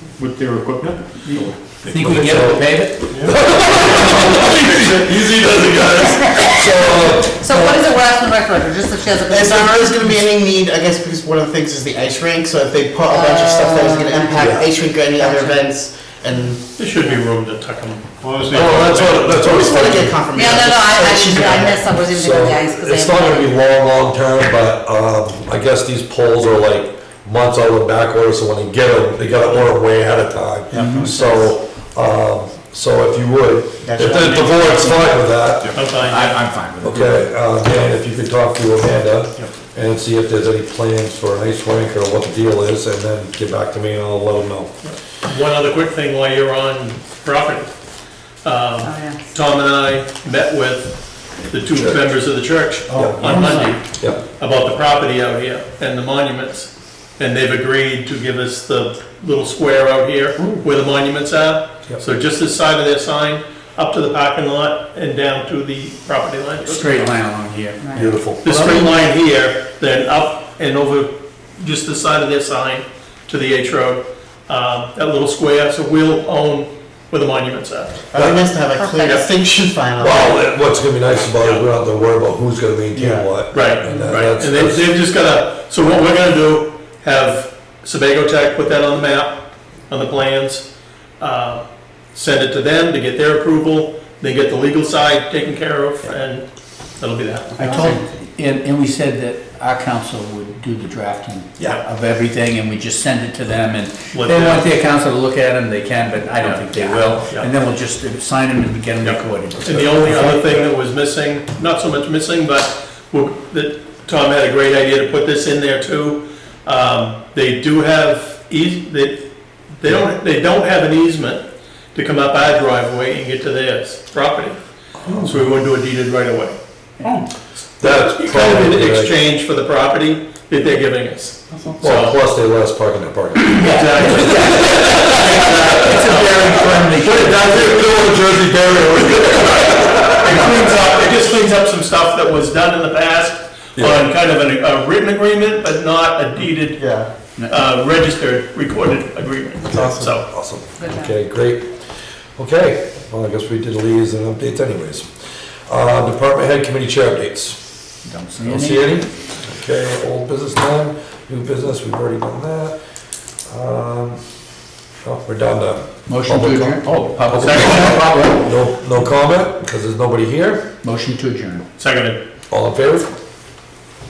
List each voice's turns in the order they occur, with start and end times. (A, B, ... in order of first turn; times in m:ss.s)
0:00.2-0:02.3 A
0:01.2-0:03.2 B
0:02.0-0:07.7 C
0:03.1-0:05.1 A
0:06.8-0:07.8 D
0:07.4-0:10.1 E
0:09.3-0:16.6 D
0:13.0-0:15.7 E
0:14.4-0:14.6 C
0:16.8-0:19.4 F
0:18.2-0:19.0 A
0:18.5-0:20.2 C
0:19.3-0:21.8 D
0:20.3-0:23.5 E
0:22.1-0:35.8 C
0:30.7-0:31.5 D
0:30.8-0:31.1 B
0:33.8-0:35.1 D
0:35.7-0:37.2 B
0:35.7-0:36.5 F
0:36.8-0:44.7 C
0:44.8-0:47.7 F
0:48.4-1:07.1 F
0:48.8-0:49.2 E
0:51.7-0:52.0 C
0:52.9-0:53.4 D
0:52.9-0:54.2 C
1:06.6-1:08.0 B
1:07.8-1:08.1 E
1:07.9-1:08.8 C
1:08.4-1:18.0 F
1:18.1-1:20.4 D
1:18.2-1:18.4 C
1:18.8-1:19.2 E
1:20.0-1:24.8 C
1:22.9-1:23.2 D
1:23.5-1:30.6 F
1:31.2-1:38.0 F
1:37.6-1:50.4 B
1:44.1-1:44.7 F
1:46.4-1:47.5 F
1:49.0-2:04.6 F
2:05.0-2:05.3 C
2:05.2-2:06.6 F
2:07.8-2:09.1 C
2:07.8-2:12.2 F
2:11.8-2:20.6 C
2:13.5-2:17.8 F
2:13.6-2:17.6 B
2:19.4-2:26.8 F
2:23.8-2:24.0 C
2:26.8-2:27.1 D
2:27.4-2:30.2 F
2:29.7-2:30.2 D
2:30.3-2:31.7 C
2:30.8-2:31.0 E
2:32.4-2:35.1 C
2:35.7-2:37.6 C
2:38.0-2:39.0 B
2:38.4-2:42.8 C
2:43.5-2:44.2 C
2:45.0-2:50.7 C
2:46.1-2:48.4 B
2:47.3-2:48.1 F
2:50.8-2:51.6 B
2:51.8-2:52.2 F
2:52.5-2:53.1 C